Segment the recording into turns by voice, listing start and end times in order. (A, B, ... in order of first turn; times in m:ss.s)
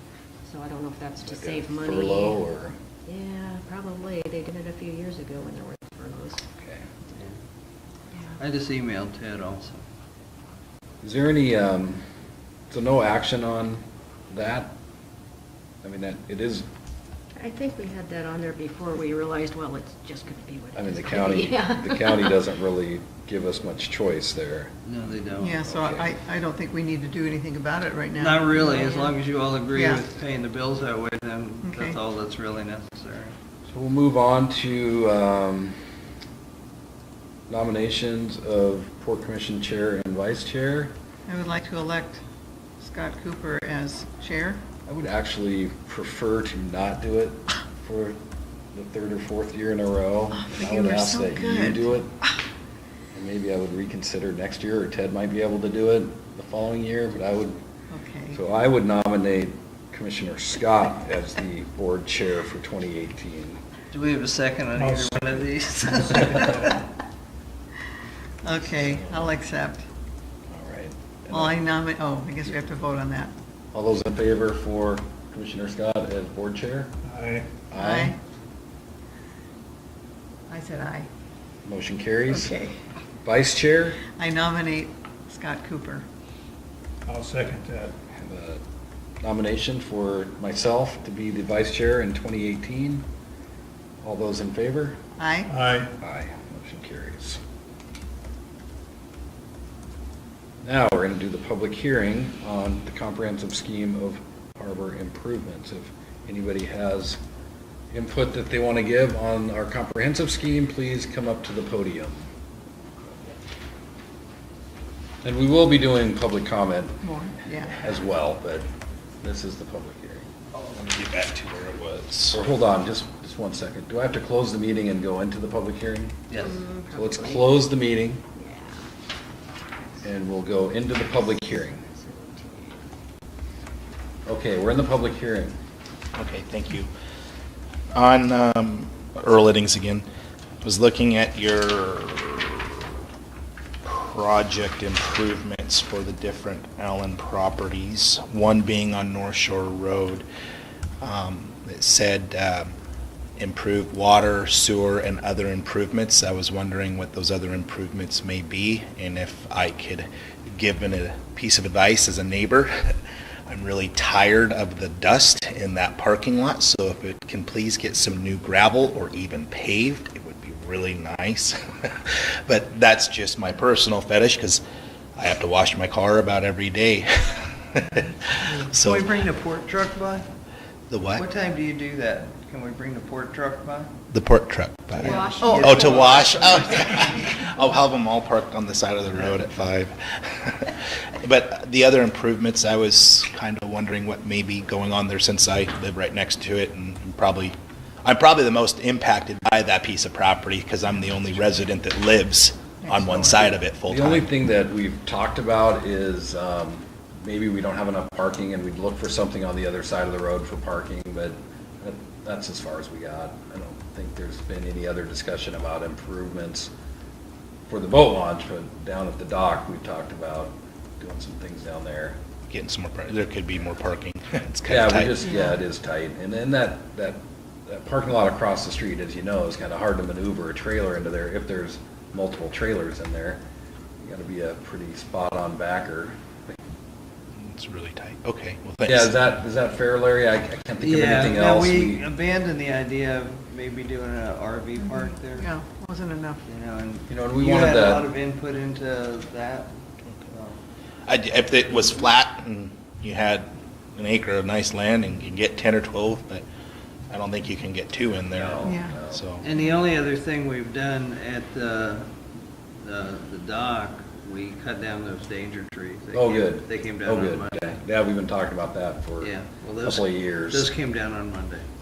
0:00.4-0:02.5 A
0:01.2-0:02.8 B
0:03.0-0:06.4 A
0:08.4-0:09.8 C
0:11.0-0:12.0 B
0:12.7-0:14.7 B
0:15.8-0:16.7 B
0:17.4-0:22.4 A
0:20.8-0:24.7 B
0:24.9-0:25.7 C
0:25.4-0:28.9 D
0:25.7-0:26.1 B
0:28.2-0:33.3 C
0:28.6-0:29.1 A
0:29.7-0:30.0 D
0:31.6-0:32.0 D
0:33.7-0:35.8 B
0:37.5-0:40.9 B
0:41.3-0:42.2 D
0:42.8-0:44.6 D
0:44.9-0:48.2 B
0:48.7-0:52.2 B
0:50.4-0:51.8 D
0:53.1-0:57.6 B
0:57.9-0:58.4 D
0:58.3-1:03.6 B
1:03.9-1:06.8 C
1:04.7-1:05.5 E
1:06.2-1:06.7 E
1:08.4-1:09.8 D
1:08.8-1:09.3 B
1:10.5-1:11.6 B
1:11.3-1:13.3 D
1:13.7-1:16.9 B
1:17.0-1:17.5 E
1:17.7-1:18.1 B
1:17.8-1:18.2 D
1:20.5-1:21.1 D
1:21.6-1:22.5 B
1:22.3-1:22.7 D
1:23.2-1:24.0 B
1:24.2-1:26.0 D
1:27.0-1:27.9 E
1:28.2-1:28.6 B
1:29.2-1:33.0 B
1:34.0-1:35.0 B
1:35.2-1:35.5 D
1:35.5-1:35.9 E
1:36.0-1:37.4 B
1:40.6-1:47.2 B
1:47.9-1:52.2 B
1:55.2-1:57.0 B
1:57.0-1:57.8 D
1:57.7-1:58.6 B
1:59.2-2:00.2 B
2:00.6-2:02.4 F
2:02.3-2:06.2 B
2:06.3-2:06.6 C
2:06.3-2:07.6 A
2:06.9-2:08.2 B
2:08.4-2:08.8 A
2:10.0-2:11.8 B
2:11.1-2:12.8 A
2:14.2-2:15.6 B
2:16.1-2:16.9 F
2:17.9-2:20.1 F
2:20.6-2:22.9 F
2:23.8-2:30.2 F
2:31.0-2:32.7 F
2:33.4-2:42.9 F
2:43.5-2:54.6 F
2:55.2-2:59.1 F
2:58.8-3:00.3 C
3:00.9-3:01.2 F
3:01.2-3:03.9 C
3:04.1-3:24.3 F
3:05.0-3:07.2 C
3:05.0-3:07.0 A
3:05.4-3:05.8 D
3:22.8-3:23.5 D
3:23.8-3:36.7 B
3:37.7-3:42.2 B
3:42.5-3:45.1 F
3:44.7-3:53.4 B
3:45.3-3:45.5 D
3:54.0-3:56.5 B
3:57.4-3:59.2 F
3:58.8-4:02.1 B
4:00.8-4:05.5 C
4:05.4-4:06.4 D
4:06.5-4:09.8 C
4:07.1-4:08.1 B
4:10.3-4:10.6 C
4:11.1-4:16.4 F
4:17.1-4:19.5 F
4:18.3-4:19.2 B
4:18.6-4:19.0 D
4:19.4-4:22.1 C
4:22.8-4:27.8 C
4:26.1-4:30.7 B
4:29.2-4:31.6 C